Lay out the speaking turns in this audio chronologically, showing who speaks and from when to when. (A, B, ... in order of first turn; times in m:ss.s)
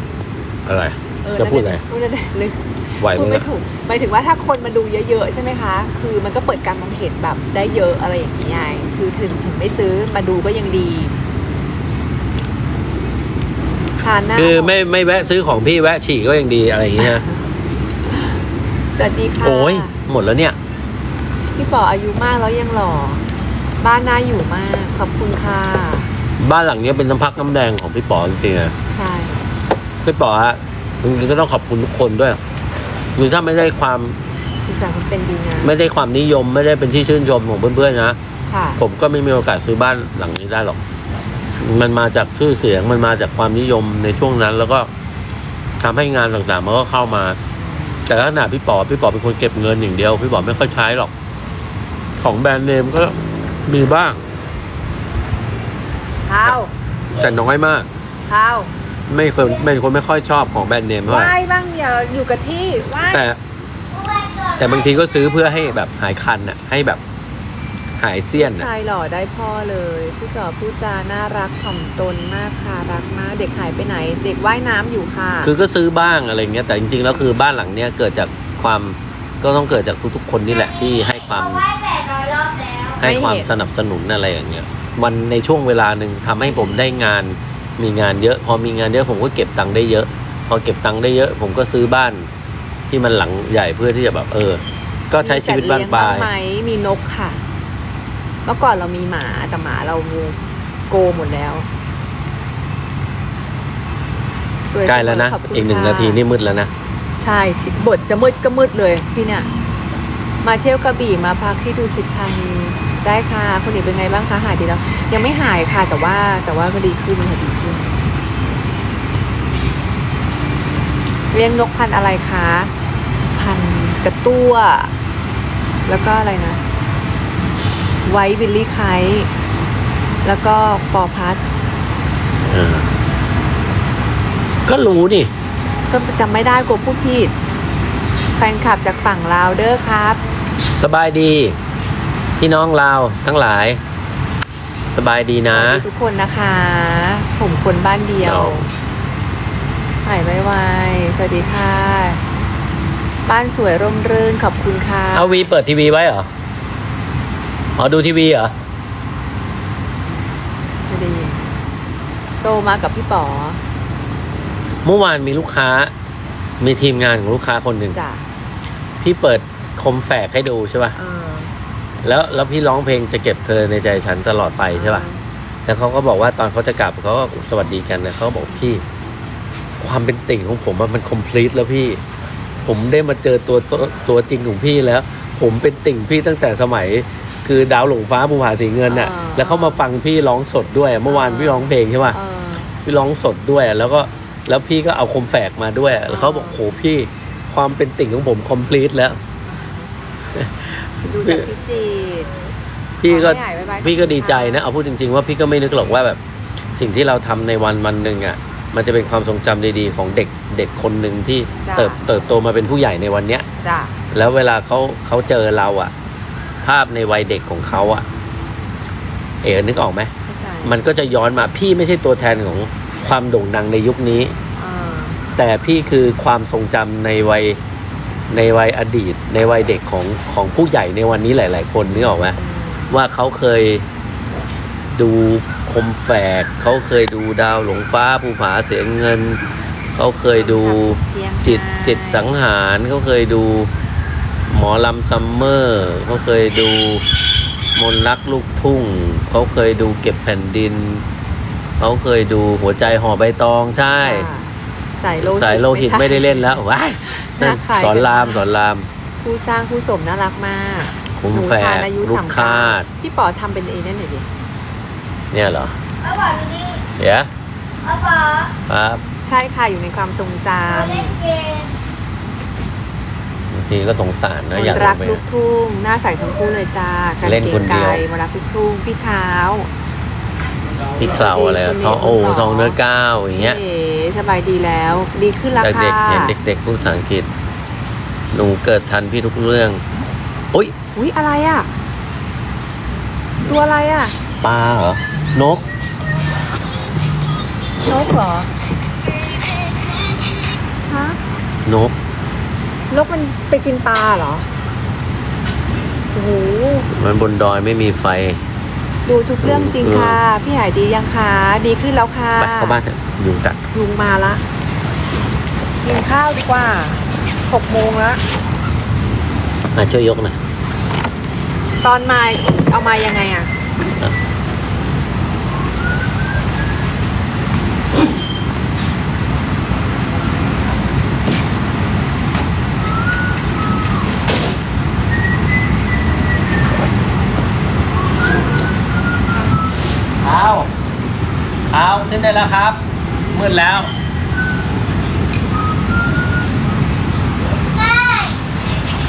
0:00.6-0:01.8 A
0:01.2-0:11.1 B
0:03.0-0:03.5 A
0:14.0-0:14.8 B
0:14.4-0:17.2 A
0:18.1-0:18.3 B
0:18.9-0:19.9 B
0:19.4-0:20.6 A
0:21.6-0:23.2 B
0:23.8-0:26.1 B
0:26.4-0:28.7 A
0:28.9-0:29.5 B
0:30.0-0:32.4 A
0:33.2-0:34.2 A
0:34.6-0:35.7 B
0:35.6-0:38.2 A
0:38.5-0:38.8 B
0:38.8-0:40.8 A
0:41.6-0:44.9 A
0:45.8-0:47.4 A
0:47.5-0:48.0 B
0:48.1-0:51.1 A
0:52.2-0:54.2 A
0:56.2-0:56.7 B
0:57.1-0:57.9 A
0:58.3-0:58.7 B
0:59.1-1:01.3 A
1:01.1-1:03.2 B
1:03.1-1:03.4 A
1:03.9-1:05.7 C
1:04.6-1:07.0 A
1:08.0-1:08.7 A
1:08.3-1:15.5 B
1:15.4-1:21.6 A
1:21.3-1:23.0 C
1:23.0-1:32.3 A
1:23.0-1:23.5 B
1:32.9-1:36.3 A
1:35.2-1:37.4 B
1:38.4-1:41.7 B
1:44.7-1:46.2 B
1:44.8-1:46.7 A
1:47.2-1:49.5 B
1:50.4-1:58.0 B
2:01.3-2:02.7 B
2:03.3-2:04.9 B
2:05.8-2:06.6 B
2:08.0-2:09.3 B
2:10.2-2:11.4 B
2:12.4-2:12.9 A
2:14.6-2:15.3 A
2:15.9-2:17.3 B
2:18.4-2:20.2 B
2:20.7-2:21.6 A
2:22.4-2:23.8 A
2:24.9-2:25.8 A
2:25.4-2:28.7 B
2:28.2-2:28.7 A
2:30.0-2:32.2 B
2:33.2-2:35.5 B
2:35.1-2:36.3 A
2:37.8-2:38.5 A
2:40.9-2:41.5 B
2:42.4-2:43.6 B
2:44.8-2:45.9 A
2:46.6-2:48.0 A
2:47.9-2:48.3 B
2:49.0-2:51.0 A
2:50.9-2:51.5 B
2:52.0-2:55.0 A
2:54.7-2:55.2 B
2:55.6-2:58.8 A
2:59.8-3:02.0 A
3:02.6-3:12.2 A
3:08.9-3:09.8 B
3:11.1-3:12.7 B
3:12.7-3:19.2 A
3:16.1-3:16.6 B
3:19.5-3:19.9 B
3:20.3-3:21.5 A
3:21.1-3:22.3 B
3:23.0-3:26.2 A
3:23.0-3:24.6 B
3:26.7-3:33.4 A
3:31.6-3:32.0 B
3:33.6-3:34.0 B
3:34.1-3:35.9 A
3:36.6-3:38.0 A
3:39.4-3:40.1 A
3:40.2-3:40.8 B
3:40.6-3:44.3 A
3:44.6-3:45.2 B
3:45.4-3:47.6 A
3:48.3-3:52.4 A
3:51.9-3:52.9 B
3:52.9-3:53.8 A
3:54.9-3:59.4 A
3:59.9-4:03.7 A
4:00.3-4:02.3 B
4:04.5-4:07.0 A
4:07.8-4:11.0 A
4:11.8-4:14.3 A
4:14.0-4:18.4 B
4:15.2-4:18.9 A
4:19.2-4:24.3 B
4:21.1-4:22.9 A
4:25.3-4:25.8 A
4:26.0-4:26.8 C
4:27.0-4:27.3 A
4:27.8-4:28.5 C
4:28.7-4:29.0 A
4:29.2-4:31.2 B
4:30.7-4:31.7 C
4:33.5-4:35.2 A
4:34.5-4:39.7 B
4:37.2-4:38.0 A
4:41.0-4:43.6 A
4:41.0-4:42.8 B
4:43.4-4:46.4 B
4:45.6-4:47.3 A
4:48.3-4:49.8 A
4:50.9-4:51.7 B
4:53.4-4:54.2 B
4:54.4-4:55.6 A
4:57.8-4:58.5 B
5:00.9-5:01.2 B
5:01.6-5:01.9 A
5:02.9-5:04.5 B
5:06.1-5:06.9 B
5:06.9-5:08.4 A
5:09.0-5:12.8 B
5:09.4-5:10.2 A
5:12.4-5:13.6 A
5:13.7-5:14.4 B
5:15.8-5:18.2 B
5:19.7-5:20.4 A
5:21.8-5:23.5 B
5:40.2-5:40.7 A
5:41.7-5:42.8 A
5:43.3-5:43.9 A